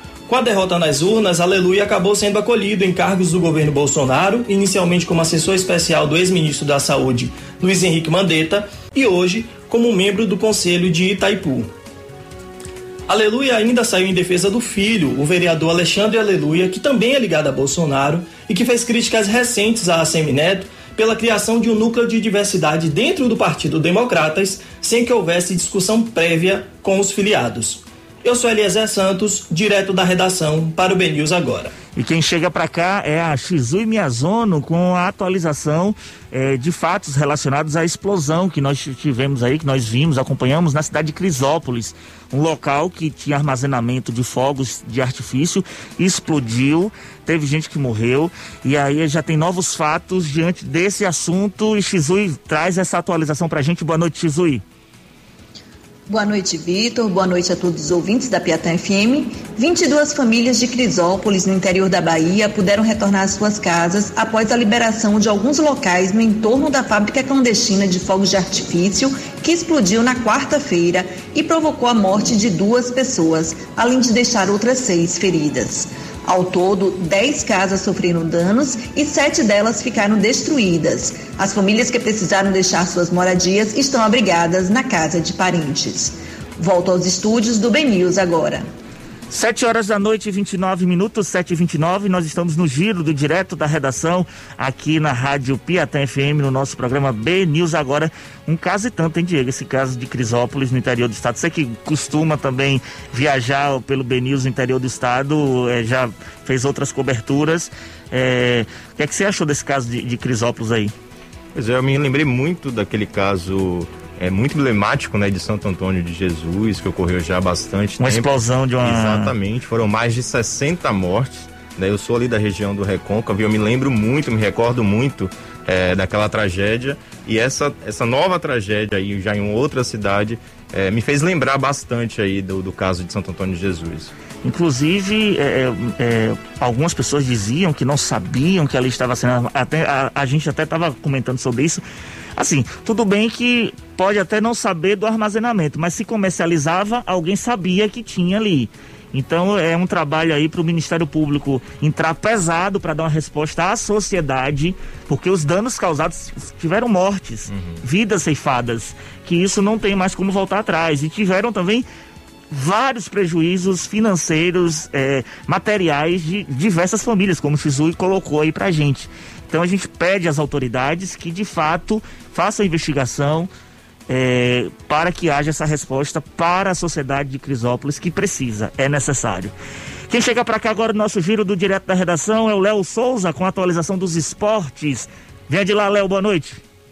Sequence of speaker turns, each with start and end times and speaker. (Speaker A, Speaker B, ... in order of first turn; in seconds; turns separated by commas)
Speaker A: 0.3-11.7, Speaker A: 13.1-31.7, Speaker B: 31.9-54.6, Speaker C: 56.1-88.7, Speaker B: 89.3-110.9, Speaker D: 111.5-134.1, Speaker B: 118.0-119.3, Speaker B: 134.4-141.8, Speaker B: 142.4-161.8, Speaker D: 157.5-157.8, Speaker B: 162.5-173.5, Speaker B: 174.1-179.5, Speaker B: 180.1-186.6